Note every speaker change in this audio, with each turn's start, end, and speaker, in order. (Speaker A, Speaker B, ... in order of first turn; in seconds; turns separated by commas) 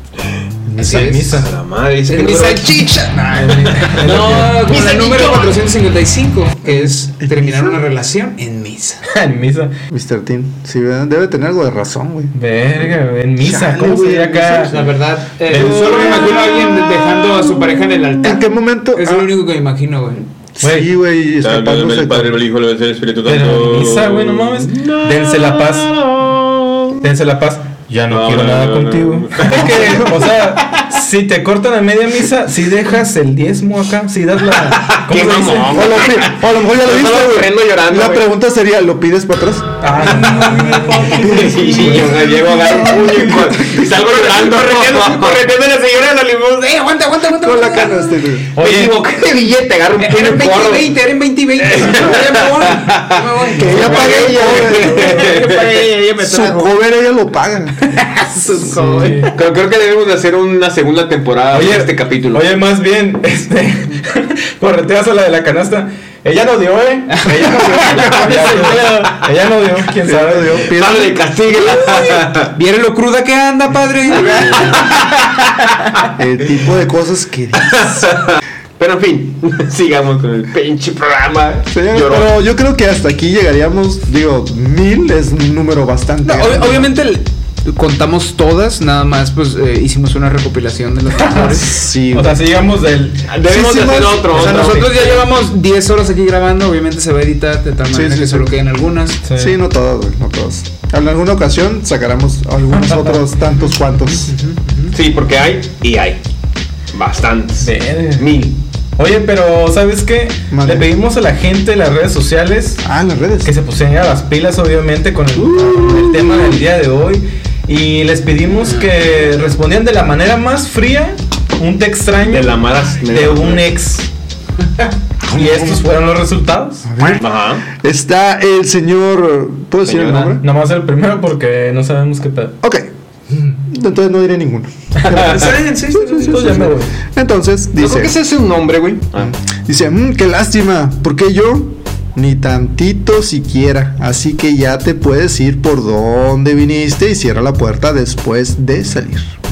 Speaker A: 0.7-1.2, Speaker B: 0.8-1.4, Speaker C: 0.8-1.5, Speaker D: 1.3-2.9, Speaker B: 2.0-9.0, Speaker C: 3.4-4.7, Speaker D: 3.8-5.6, Speaker A: 6.6-7.8, Speaker C: 9.1-9.7, Speaker A: 9.9-12.3, Speaker C: 12.3-14.9, Speaker A: 13.4-14.7, Speaker B: 14.7-20.3, Speaker C: 15.4-16.5, Speaker D: 15.9-16.6, Speaker A: 18.2-19.3, Speaker A: 20.6-22.4, Speaker C: 20.6-20.9, Speaker D: 21.4-27.0, Speaker C: 23.2-25.9, Speaker C: 27.0-36.1, Speaker D: 28.1-30.1, Speaker A: 29.5-30.2, Speaker D: 34.7-38.3, Speaker A: 35.7-39.9, Speaker C: 39.8-42.2, Speaker B: 40.0-43.0, Speaker A: 41.2-43.9, Speaker D: 41.2-45.5, Speaker B: 43.8-48.3, Speaker A: 47.3-48.5, Speaker C: 48.5-49.0, Speaker D: 48.5-51.0, Speaker B: 50.0-56.7, Speaker D: 51.6-55.9, Speaker A: 51.9-52.3, Speaker A: 53.5-55.4, Speaker A: 56.2-57.9, Speaker B: 57.9-59.3, Speaker C: 58.7-59.3, Speaker D: 59.3-62.5, Speaker C: 61.5-70.7, Speaker B: 67.1-68.9, Speaker A: 67.5-68.5, Speaker D: 68.5-69.1, Speaker A: 70.0-71.2, Speaker D: 70.7-72.5, Speaker B: 71.7-75.0, Speaker D: 74.1-75.2, Speaker A: 76.2-78.1, Speaker D: 77.6-82.4, Speaker A: 81.7-86.9, Speaker B: 86.2-91.8, Speaker C: 91.2-93.3, Speaker A: 91.6-92.5, Speaker D: 93.3-95.2, Speaker A: 93.4-94.5, Speaker C: 94.3-95.0, Speaker B: 94.3-99.2, Speaker A: 97.9-98.5, Speaker C: 99.2-99.6, Speaker A: 99.3-104.3, Speaker C: 102.7-103.3, Speaker B: 104.0-104.9, Speaker D: 104.9-106.2, Speaker D: 106.9-108.6, Speaker C: 107.6-108.3, Speaker C: 109.0-112.8, Speaker A: 110.5-110.9, Speaker A: 112.8-113.5, Speaker C: 113.4-124.1, Speaker D: 115.4-116.4, Speaker D: 122.3-123.7, Speaker C: 125.3-126.9, Speaker A: 125.3-125.8, Speaker A: 126.8-130.4, Speaker D: 127.2-127.6, Speaker D: 129.8-130.4, Speaker C: 130.4-132.6, Speaker A: 132.6-132.9, Speaker A: 133.6-138.2, Speaker C: 135.0-135.3, Speaker D: 135.1-135.5, Speaker B: 135.1-136.7, Speaker C: 136.1-136.9, Speaker D: 137.8-139.3, Speaker A: 139.2-149.3